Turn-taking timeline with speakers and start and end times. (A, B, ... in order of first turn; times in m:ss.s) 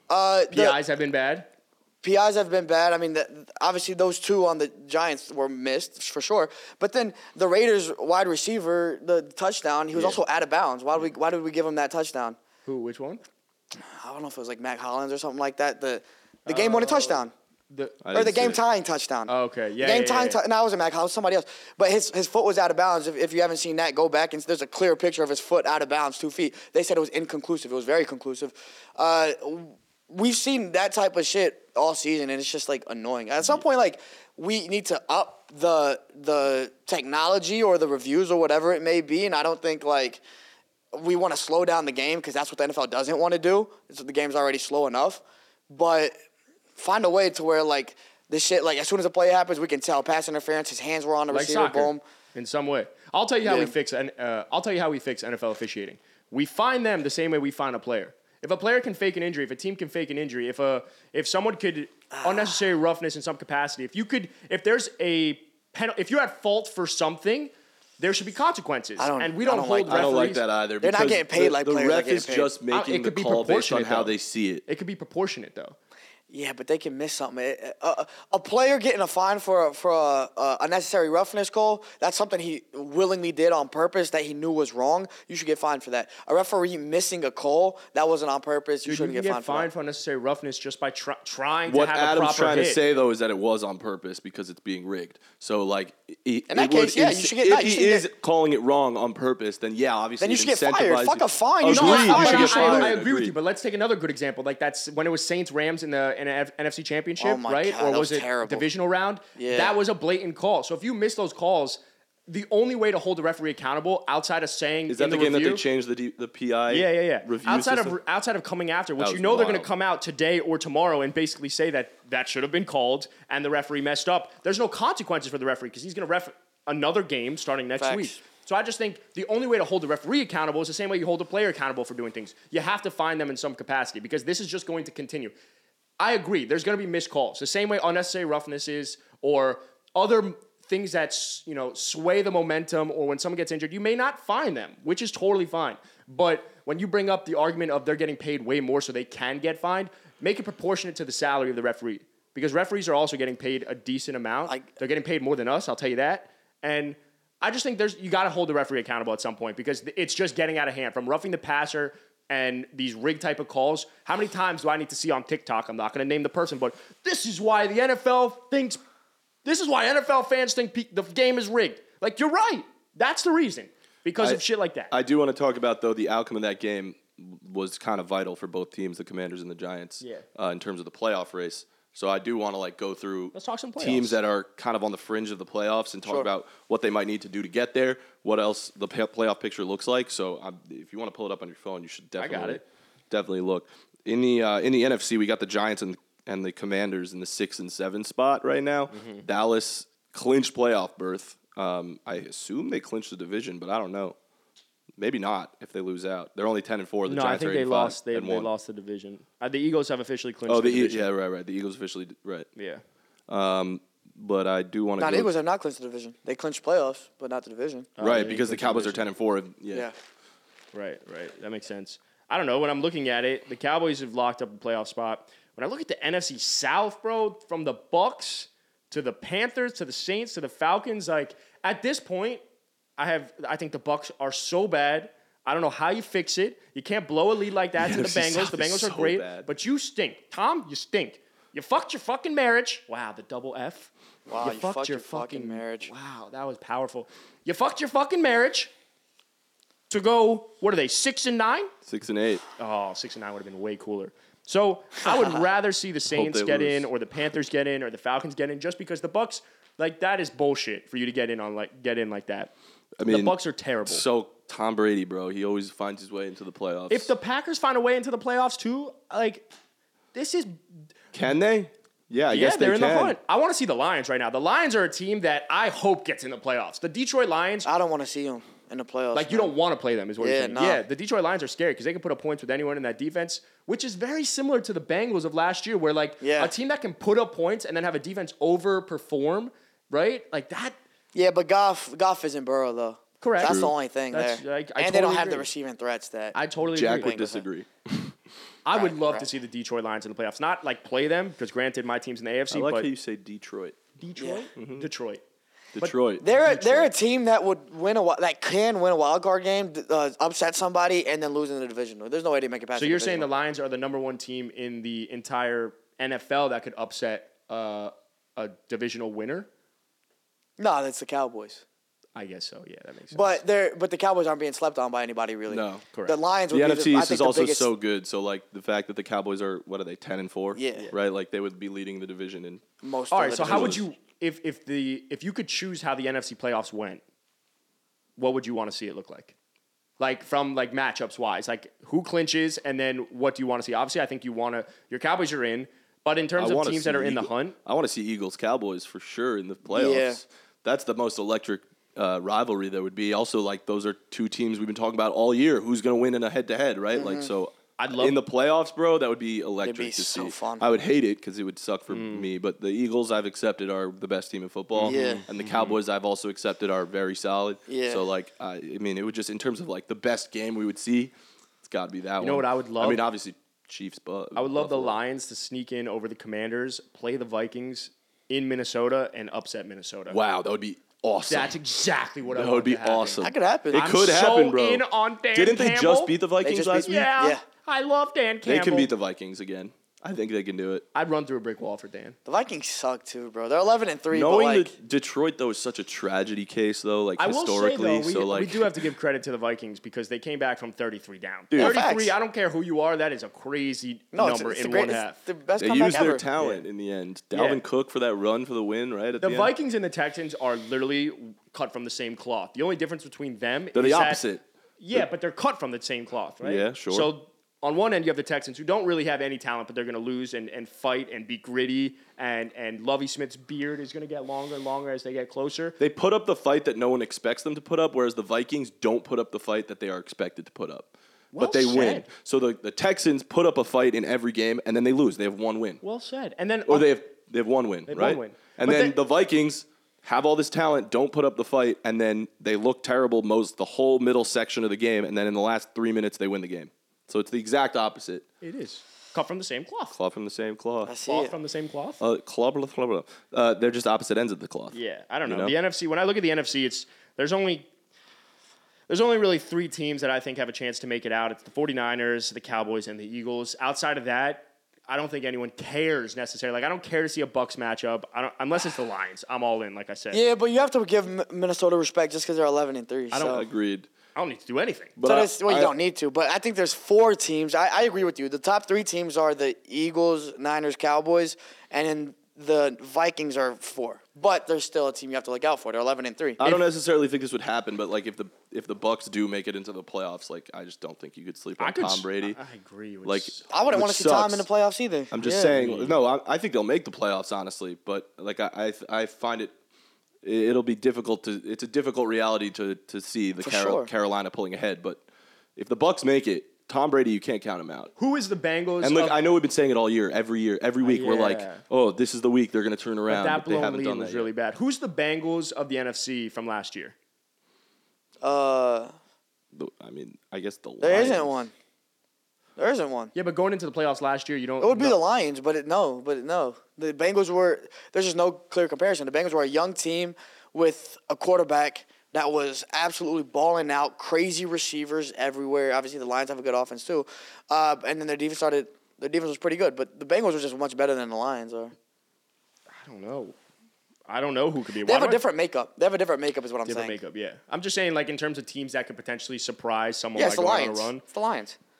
0:00.1-0:00.8 A
0:00.5-0:01.5 B
0:02.0-0:12.4 A
0:12.7-0:13.2 B
0:13.7-0:17.3 A
0:16.5-0:18.0 B
0:18.0-0:18.6 C
0:18.1-0:40.2 A
0:19.3-0:20.4 B
0:40.9-0:46.2 A
0:46.8-0:52.0 A
0:51.3-1:10.4 B
0:53.4-0:53.7 A
1:02.1-1:02.6 A
1:09.0-1:10.2 A
1:09.9-1:14.6 C
1:10.8-1:12.5 A
1:12.7-1:14.1 B
1:14.7-1:15.8 B
1:16.3-1:29.7 A
1:28.8-1:32.8 B
1:31.7-1:43.4 C
1:36.5-1:38.1 A
1:40.2-1:43.0 A
1:41.7-1:55.6 B
1:47.2-1:48.7 A
1:49.4-1:49.8 A
1:54.9-1:58.0 C
1:56.7-2:15.3 B
1:59.0-1:59.7 C
2:07.8-2:08.2 A
2:16.0-2:48.8 B
2:49.4-2:54.9 B
2:54.2-3:24.2 C
3:03.3-3:04.2 B
3:06.0-3:06.3 A
3:12.2-3:12.6 B
3:18.9-3:19.2 B
3:25.0-3:28.5 C
3:27.1-3:31.1 B
3:30.5-3:32.5 C
3:32.6-3:32.8 B
3:33.3-3:35.3 C
3:35.0-3:37.9 A
3:38.0-3:39.1 B
3:38.0-3:39.9 C
3:40.7-3:52.4 B
3:53.0-4:08.7 B
3:57.8-3:59.5 C
4:04.3-4:05.9 A
4:09.9-4:11.7 B
4:11.8-4:12.4 C
4:12.6-4:22.5 B
4:16.1-4:16.9 C
4:23.0-4:23.4 C
4:23.0-4:24.0 B
4:23.9-4:27.1 C
4:26.9-4:29.5 B
4:30.1-4:30.6 B
4:31.1-4:33.2 C
4:32.3-4:37.7 B
4:37.6-4:39.5 A
4:39.1-4:50.8 B
4:40.2-4:40.8 A
4:46.2-4:46.5 A
4:51.1-4:56.4 A
4:53.2-4:55.5 B
4:53.4-4:53.7 C
4:56.3-4:57.2 B
4:56.7-4:58.1 C
4:56.9-4:57.4 A
4:58.6-5:02.9 B
4:58.7-4:59.3 A
5:02.5-5:03.8 C
5:04.0-5:05.2 B
5:04.2-5:04.5 A
5:04.6-5:04.9 C
5:05.8-5:06.3 C
5:05.8-5:06.9 B
5:06.2-5:13.3 A
5:12.8-5:19.5 B
5:20.6-5:21.6 A
5:22.2-5:23.4 B
5:23.1-5:27.7 A
5:25.5-5:25.8 C
5:26.5-5:32.6 C
5:30.6-5:30.9 A
5:32.8-5:33.8 A
5:33.1-5:37.0 B
5:33.4-5:33.8 C
5:38.2-5:39.4 B
5:40.0-5:47.6 B
5:46.4-6:11.1 C
5:49.7-5:50.2 A
5:56.9-5:57.3 A
5:57.8-5:58.2 B
5:59.6-6:00.7 A
6:01.9-6:02.3 B
6:04.8-6:05.8 B
6:04.8-6:05.2 A
6:07.7-6:08.0 A
6:11.6-6:15.0 C
6:12.2-6:13.0 B
6:14.4-6:20.2 B
6:20.1-6:21.6 C
6:21.3-6:26.1 B
6:22.3-6:27.0 C
6:23.2-6:23.9 A
6:26.4-6:27.4 A
6:26.8-6:28.9 B
6:28.5-6:30.8 C
6:30.9-6:32.2 B
6:32.3-6:34.7 A
6:34.1-6:38.8 C
6:37.2-6:45.2 B
6:41.5-6:41.8 C
6:41.6-6:42.2 A
6:44.1-6:46.2 A
6:45.6-6:49.5 C
6:46.4-6:46.7 B
6:47.3-6:47.6 B
6:49.2-6:54.2 B
6:53.7-6:54.4 C
6:54.8-7:05.8 B
6:56.4-6:57.1 C
7:05.8-7:15.8 C
7:11.3-7:12.1 B
7:15.8-7:17.0 B
7:16.7-7:28.2 C
7:17.9-7:19.0 B
7:28.4-7:30.0 B
7:29.9-7:30.9 C
7:30.8-7:31.3 A
7:31.1-7:32.0 B
7:32.0-7:35.5 C
7:34.7-7:37.7 B
7:38.9-7:50.2 B
7:50.1-7:53.4 A
7:53.1-7:53.4 B
7:53.1-7:53.9 C
7:54.2-7:55.0 B
7:55.0-7:55.7 C
7:55.0-8:06.4 A
8:06.4-8:12.4 C
8:11.6-8:13.5 B
8:13.0-8:14.5 C
8:13.5-8:15.8 A
8:15.1-8:19.5 C
8:15.5-8:16.0 B
8:20.2-8:25.0 C
8:23.4-8:23.9 A
8:25.6-8:27.9 C
8:28.0-8:29.2 B
8:28.8-8:34.3 C
8:30.8-8:31.6 B
8:33.1-8:37.0 B
8:38.2-8:38.9 A
8:39.5-8:41.4 C
8:40.8-8:41.5 A
8:42.6-8:43.1 A
8:43.2-8:45.0 B
8:44.6-9:01.7 A
9:02.8-9:03.4 B
9:04.1-9:05.2 B
9:04.8-9:07.0 A
9:06.6-9:11.0 B
9:10.2-9:11.6 A